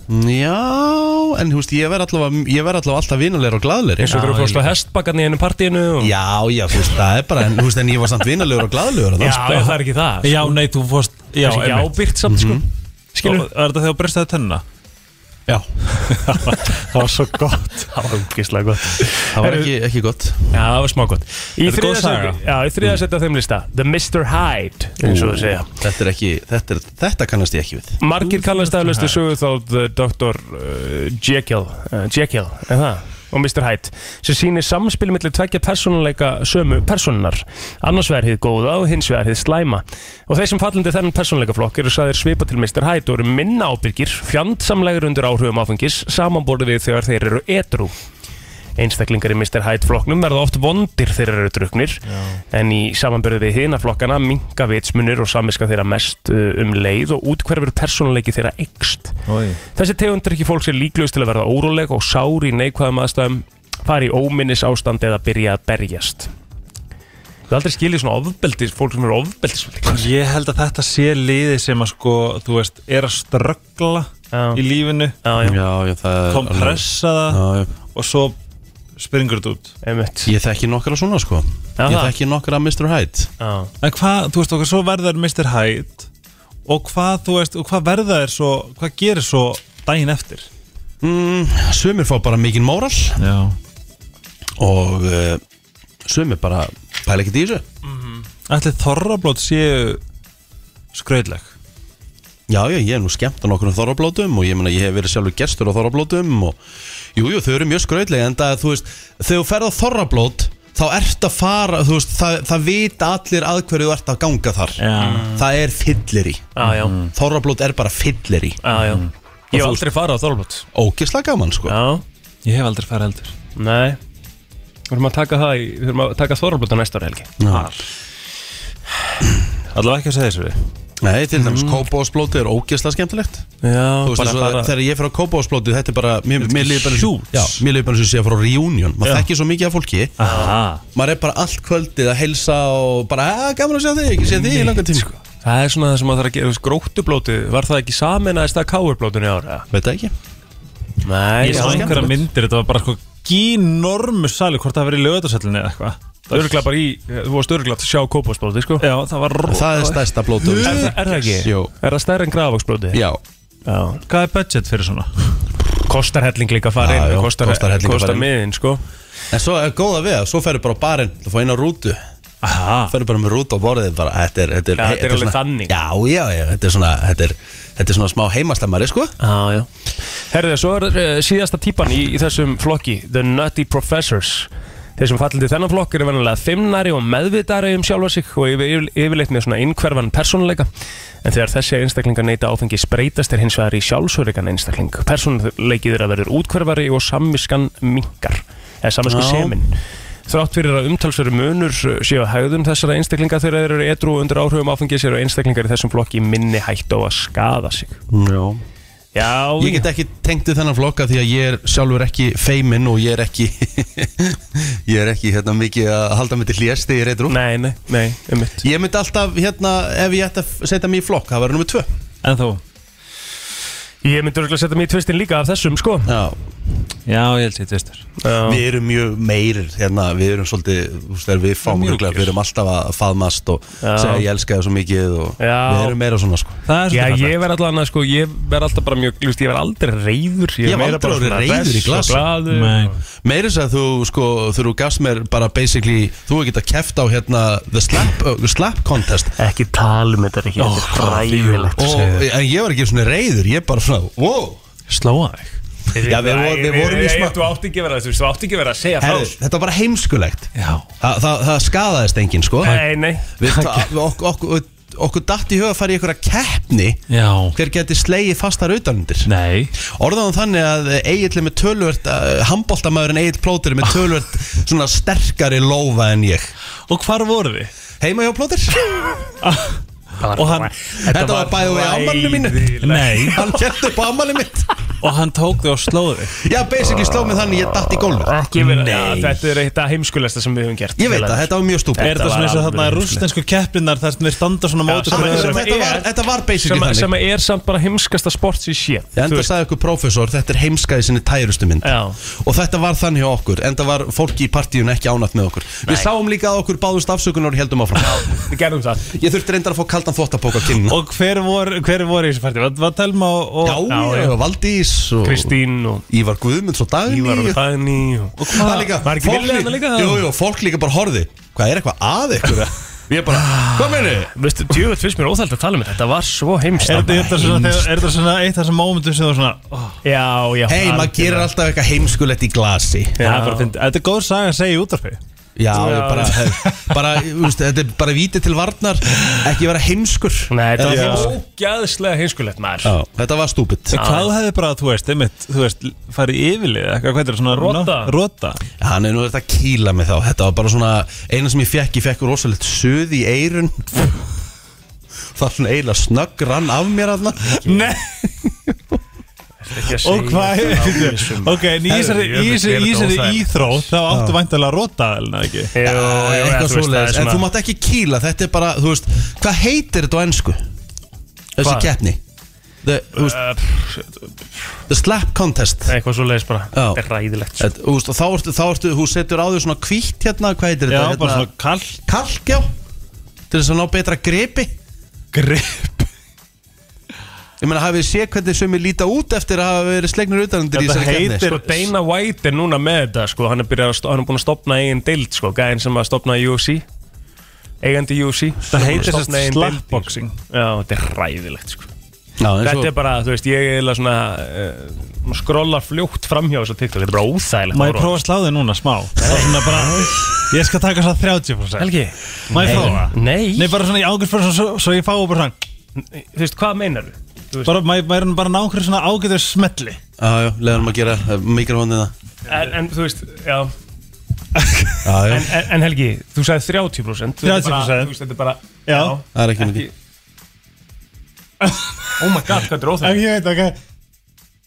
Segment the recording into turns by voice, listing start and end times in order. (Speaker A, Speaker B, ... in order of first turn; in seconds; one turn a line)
Speaker A: 0.1-4.5
Speaker B: 4.0-6.1
Speaker C: 4.2-4.6
Speaker A: 6.0-9.7
Speaker B: 9.2-10.6
Speaker C: 10.2-12.0
Speaker B: 11.4-13.5
Speaker A: 12.3-12.6
Speaker C: 13.2-14.6
Speaker C: 16.1-17.9
Speaker B: 17.9-19.7
Speaker A: 19.3-20.4
Speaker B: 20.5-25.7
Speaker C: 21.6-22.4
Speaker A: 25.0-28.0
Speaker B: 28.0-47.9
Speaker C: 28.3-29.2
Speaker B: 48.8-59.1
Speaker C: 52.0-52.4
Speaker C: 59.3-59.6
Speaker B: 59.7-66.3
Speaker B: 67.5-70.1
Speaker C: 69.9-75.2
Speaker B: 74.3-74.6
Speaker B: 75.2-75.6
Speaker A: 75.4-77.7
Speaker C: 76.3-78.4
Speaker C: 79.0-79.7
Speaker B: 79.8-80.3
Speaker A: 80.2-83.3
Speaker B: 81.8-82.1
Speaker B: 83.4-83.7
Speaker C: 83.8-86.1
Speaker C: 86.7-90.5
Speaker A: 91.0-93.2
Speaker C: 93.2-93.6
Speaker A: 94.6-95.4
Speaker A: 96.0-97.6
Speaker C: 98.5-100.0
Speaker C: 100.9-101.5
Speaker A: 102.5-106.6
Speaker A: 107.1-114.8
Speaker C: 114.8-115.4
Speaker B: 115.0-115.4
Speaker A: 115.3-116.5
Speaker B: 116.5-116.9
Speaker C: 116.6-117.1
Speaker A: 117.1-118.6
Speaker B: 118.6-120.7
Speaker C: 118.7-119.1
Speaker A: 119.5-119.8
Speaker A: 120.7-121.8
Speaker B: 121.7-122.0
Speaker C: 122.4-123.3
Speaker B: 123.5-124.0
Speaker B: 124.9-127.3
Speaker A: 127.4-127.7
Speaker C: 127.5-127.8
Speaker C: 129.7-130.6
Speaker A: 131.0-133.4
Speaker B: 131.3-131.8
Speaker B: 133.6-134.7
Speaker A: 134.0-140.1
Speaker C: 136.4-137.6
Speaker C: 140.2-140.8
Speaker B: 140.2-140.5
Speaker A: 140.9-145.1
Speaker B: 144.2-149.7
Speaker A: 149.7-150.1
Speaker B: 151.0-152.1
Speaker A: 151.4-152.2
Speaker C: 151.4-156.6
Speaker B: 156.3-158.9
Speaker C: 158.8-161.0
Speaker A: 159.5-161.7
Speaker B: 160.5-163.0
Speaker A: 162.9-163.2
Speaker B: 163.7-164.0
Speaker C: 164.1-165.1
Speaker B: 165.8-168.8
Speaker A: 166.8-168.3
Speaker A: 169.3-172.0
Speaker C: 172.4-172.9
Speaker A: 172.9-179.1
Speaker B: 174.8-175.7
Speaker B: 179.2-179.7
Speaker B: 180.3-190.7
Speaker B: 191.2-208.0
Speaker A: 199.1-199.5
Speaker A: 208.1-208.6
Speaker B: 209.1-209.9
Speaker A: 209.6-217.4
Speaker B: 217.3-218.6
Speaker A: 218.6-221.9
Speaker C: 222.2-222.6
Speaker B: 224.0-226.1
Speaker A: 226.1-226.4
Speaker C: 227.1-228.1
Speaker B: 228.2-228.6
Speaker A: 228.4-236.6
Speaker C: 231.6-232.3
Speaker B: 233.8-234.3
Speaker B: 235.4-236.0
Speaker C: 236.7-237.4
Speaker B: 236.9-243.0
Speaker A: 240.6-242.3
Speaker C: 242.5-243.0
Speaker A: 243.2-249.3
Speaker B: 249.4-252.2
Speaker C: 250.6-252.2
Speaker A: 251.8-254.6
Speaker C: 254.9-255.6
Speaker B: 255.9-259.3
Speaker A: 256.1-257.4
Speaker A: 259.0-267.0
Speaker C: 260.6-260.9
Speaker B: 262.6-263.3
Speaker C: 263.4-263.9
Speaker C: 267.1-267.6
Speaker A: 267.5-269.3
Speaker C: 269.2-269.7
Speaker A: 269.8-276.5
Speaker C: 276.9-277.7
Speaker A: 278.0-278.9
Speaker C: 279.4-279.8
Speaker B: 280.2-283.6
Speaker C: 280.3-280.7
Speaker A: 281.0-284.7
Speaker C: 282.8-283.5
Speaker C: 285.0-286.4
Speaker A: 286.4-288.3
Speaker B: 287.0-293.2
Speaker C: 288.5-289.5
Speaker A: 291.0-292.2
Speaker C: 292.0-295.7
Speaker B: 294.9-299.5
Speaker A: 295.1-297.1
Speaker A: 299.1-308.2
Speaker B: 301.8-302.2
Speaker B: 308.0-309.1
Speaker A: 309.1-311.0
Speaker C: 310.8-313.8
Speaker A: 313.6-315.5
Speaker B: 313.9-314.4
Speaker B: 315.2-316.0
Speaker A: 316.1-317.6
Speaker B: 317.1-318.5
Speaker C: 318.4-319.0
Speaker A: 318.5-324.3
Speaker B: 319.0-320.3
Speaker C: 323.5-324.0
Speaker B: 324.3-327.9
Speaker C: 326.8-330.0
Speaker B: 330.0-331.5
Speaker A: 330.7-333.1
Speaker B: 333.2-333.7
Speaker C: 333.2-335.2
Speaker A: 335.6-341.4
Speaker B: 335.7-336.4
Speaker C: 336.4-337.0
Speaker B: 340.5-342.9
Speaker C: 340.8-341.4
Speaker A: 342.8-343.9
Speaker C: 343.9-348.6
Speaker B: 343.9-344.3
Speaker B: 347.5-348.1
Speaker A: 348.8-354.2
Speaker A: 355.3-357.9
Speaker C: 357.6-358.3
Speaker B: 359.6-363.4
Speaker C: 359.9-365.7
Speaker A: 362.8-363.3
Speaker A: 364.1-364.4
Speaker B: 365.7-367.5
Speaker A: 365.8-370.6
Speaker A: 371.6-372.2
Speaker B: 371.6-371.9
Speaker A: 372.8-373.4
Speaker B: 373.1-374.3
Speaker A: 374.9-375.9
Speaker B: 375.9-377.7
Speaker A: 376.7-377.0
Speaker A: 377.6-381.5
Speaker C: 380.9-382.0
Speaker A: 382.1-382.7
Speaker A: 383.5-384.7
Speaker C: 385.3-386.1
Speaker A: 387.6-391.4
Speaker C: 390.7-391.9
Speaker B: 391.4-396.8
Speaker B: 397.8-401.9
Speaker C: 398.7-400.3
Speaker A: 402.4-402.9
Speaker B: 402.6-408.2
Speaker C: 407.7-411.9
Speaker B: 409.2-409.8
Speaker B: 411.8-413.7
Speaker C: 412.5-415.6
Speaker A: 412.6-413.0
Speaker B: 416.0-417.7
Speaker C: 417.6-420.0
Speaker A: 420.2-422.1
Speaker B: 422.5-423.7
Speaker C: 424.6-424.9
Speaker A: 425.0-425.5
Speaker B: 425.3-429.9
Speaker C: 427.4-428.1
Speaker C: 428.9-429.2
Speaker A: 429.3-429.9
Speaker C: 431.6-432.1
Speaker B: 432.2-433.2
Speaker C: 433.0-433.8